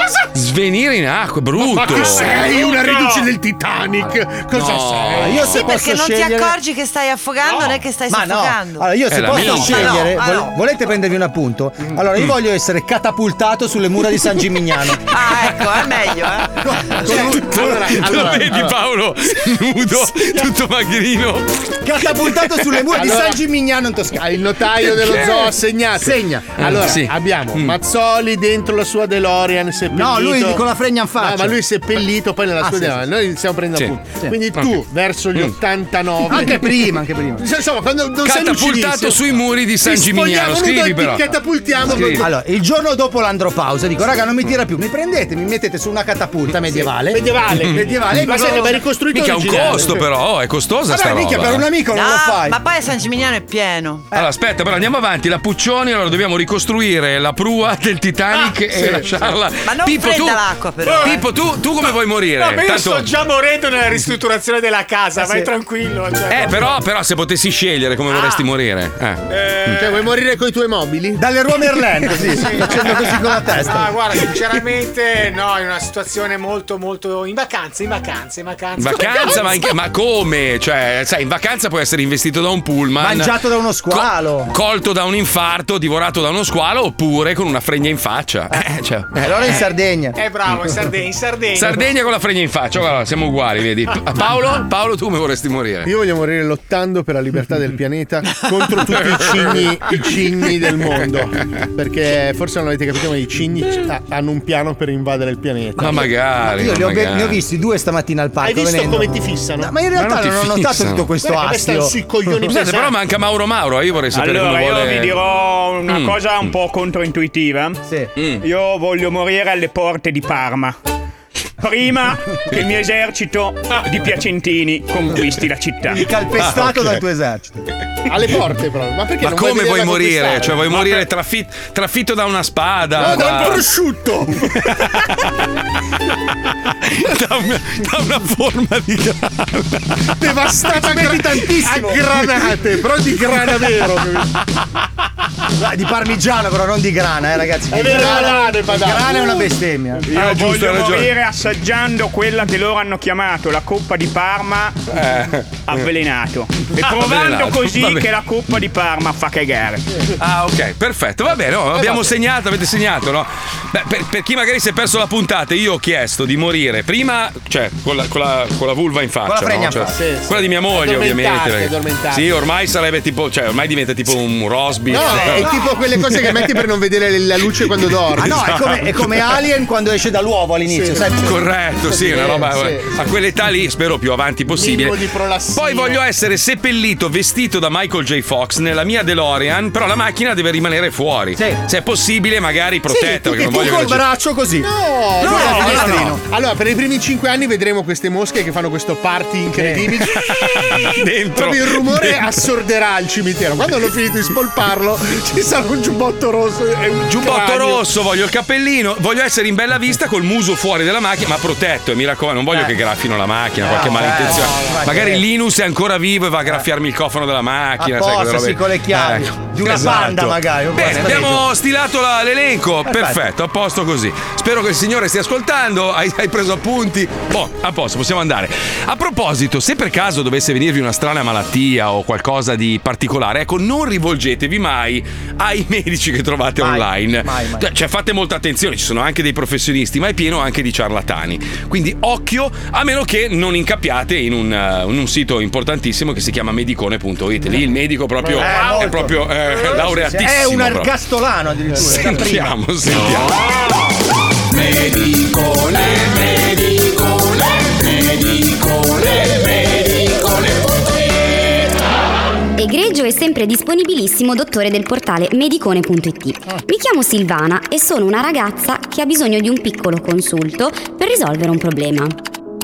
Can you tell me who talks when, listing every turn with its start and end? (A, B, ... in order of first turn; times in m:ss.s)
0:00.3-0:02.5 A
0:01.6-0:05.2 B
0:04.5-0:05.6 A
0:05.1-0:06.5 C
0:05.5-0:08.9 D
0:08.1-0:15.0 C
0:09.1-0:10.0 A
0:09.5-0:10.5 D
0:15.1-0:16.5 D
0:16.6-0:18.3 C
0:17.0-0:22.8 A
0:17.0-0:18.7 B
0:21.8-0:24.4 C
0:23.0-0:23.4 B
0:24.2-0:30.6 B
0:25.0-0:25.2 C
0:25.0-0:25.3 A
0:26.0-0:26.6 C
0:26.6-0:27.8 A
0:29.9-0:31.6 C
0:31.2-0:36.8 B
0:32.6-0:33.0 C
0:36.3-0:37.5 C
0:37.4-0:39.3 B
0:38.2-0:41.2 A
0:39.8-0:42.3 B
0:41.8-0:42.2 A
0:41.9-0:48.8 C
0:46.6-0:50.0 B
0:47.6-0:47.9 A
0:49.1-0:51.7 A
0:50.9-0:52.6 C
0:51.9-0:54.0 D
0:54.1-1:03.1 A
0:59.6-1:01.2 D
1:00.9-1:01.1 E
1:02.4-1:06.7 E
1:05.2-1:05.5 C
1:06.3-1:09.9 A
1:08.1-1:08.4 E
1:09.8-1:11.2 B
1:11.2-1:13.9 C
1:12.4-1:12.7 E
1:12.6-1:13.1 B
1:13.6-1:19.5 E
1:18.8-1:29.6 A
1:23.0-1:24.5 C
1:29.2-1:30.2 C
1:30.2-1:31.8 E
1:31.5-1:35.9 A
1:35.8-1:46.1 B
1:39.1-1:39.5 A
1:45.8-1:47.4 A
1:45.8-1:52.0 C
1:48.4-1:49.7 B
1:49.9-1:51.1 A
1:51.2-1:52.9 B
1:52.4-1:55.2 A
1:54.1-1:57.8 F
1:55.9-1:56.5 A
1:58.2-1:58.4 A
1:58.4-2:00.8 F
2:01.6-2:06.0 F
2:05.9-2:07.6 C
2:06.4-2:07.0 A
2:08.1-2:11.0 B
2:09.2-2:13.7 A
2:13.0-2:14.3 B
2:13.0-2:13.5 C
2:14.5-2:15.3 A
2:16.6-2:20.1 A
2:20.2-2:24.3 B
2:20.7-2:22.0 C
2:25.5-2:30.0 C
2:27.7-2:29.4 B
2:30.1-2:34.8 F
2:30.1-2:31.1 A
2:34.9-2:35.9 A
2:35.7-2:39.8 F
2:36.8-2:38.1 A
2:40.2-2:56.4 A
2:49.2-2:50.0 C
2:49.9-2:52.4 B
2:54.9-2:58.4 B
2:55.0-2:55.5 C
2:58.1-2:59.4 A
2:58.2-3:01.4 C
3:00.7-3:01.1 B
3:01.2-3:14.0 A
3:01.9-3:02.8 B
3:04.5-3:06.0 B
3:12.9-3:16.2 C
3:14.6-3:20.3 B
3:15.2-3:16.1 A
3:19.6-3:19.9 C
3:20.1-3:22.4 A
3:21.3-3:27.8 B
3:27.1-4:10.9 A
3:33.6-3:35.2 C
3:37.8-3:41.4 C
3:42.8-3:43.2 C
3:56.6-3:57.7 C
4:08.3-4:08.5 B
4:08.4-4:09.1 C
4:09.8-4:12.6 C
4:11.8-4:13.4 A
4:22.6-4:32.2 G